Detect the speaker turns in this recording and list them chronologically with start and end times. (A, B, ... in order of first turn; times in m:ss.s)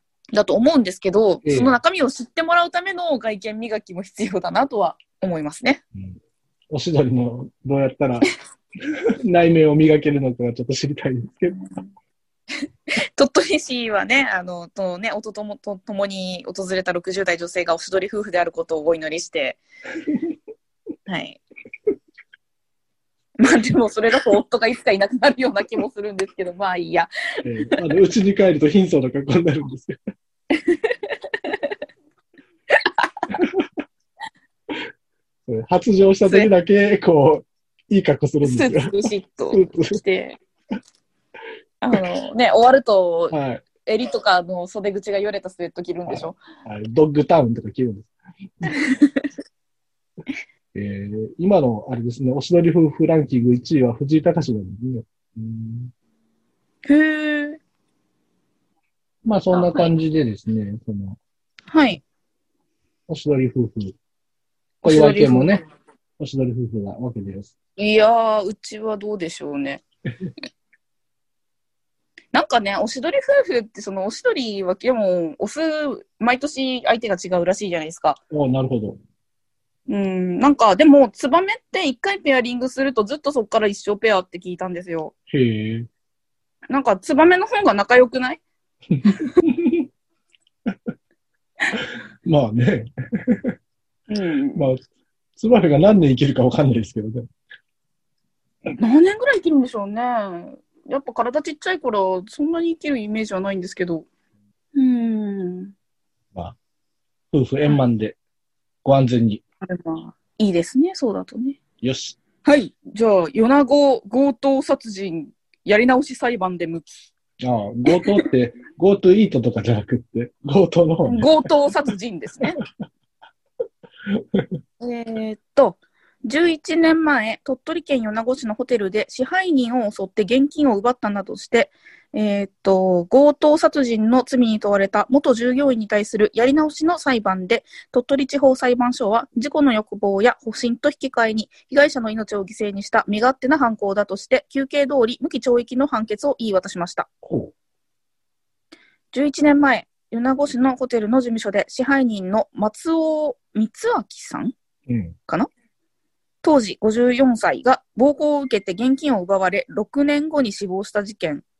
0:00.3-0:05.8 A
0:01.4-0:01.8 B
0:06.7-0:08.3 B
0:09.2-0:11.6 B
0:13.1-0:19.6 A
0:21.1-0:21.4 A
0:23.4-0:27.4 A
0:27.4-0:30.0 B
0:30.7-0:30.9 A
0:32.7-0:33.1 A
0:33.3-0:33.7 B
0:35.5-0:39.0 B
0:38.4-0:40.4 A
0:39.5-0:40.0 B
0:41.8-0:46.4 A
0:43.3-0:43.6 B
0:46.1-0:48.8 B
0:48.7-0:49.3 A
0:50.7-0:55.9 B
0:56.8-0:57.6 A
0:59.2-1:01.2 B
0:59.5-0:59.9 A
1:01.7-1:02.0 A
1:03.1-1:04.0 B
1:04.8-1:05.6 A
1:04.8-1:05.6 B
1:06.2-1:07.5 B
1:07.8-1:09.8 A
1:12.3-1:18.2 A
1:18.3-1:19.0 B
1:19.9-1:25.1 A
1:25.3-1:25.9 B
1:26.7-1:28.4 A
1:28.9-1:29.9 B
1:31.8-1:33.6 B
1:34.1-1:34.7 A
1:34.5-1:34.8 B
1:35.4-1:37.3 B
1:38.7-1:44.0 A
1:44.7-1:45.7 A
1:47.3-1:48.2 B
1:48.8-1:49.4 B
1:49.6-1:51.6 A
1:51.8-1:52.2 B
1:52.4-1:57.1 A
1:57.4-2:01.3 B
1:57.9-1:58.2 A
2:01.0-2:02.6 A
2:04.1-2:04.5 B
2:04.8-2:27.1 A
2:27.2-2:27.5 B
2:29.1-2:34.5 A
2:34.9-2:35.1 B
2:36.4-2:41.4 A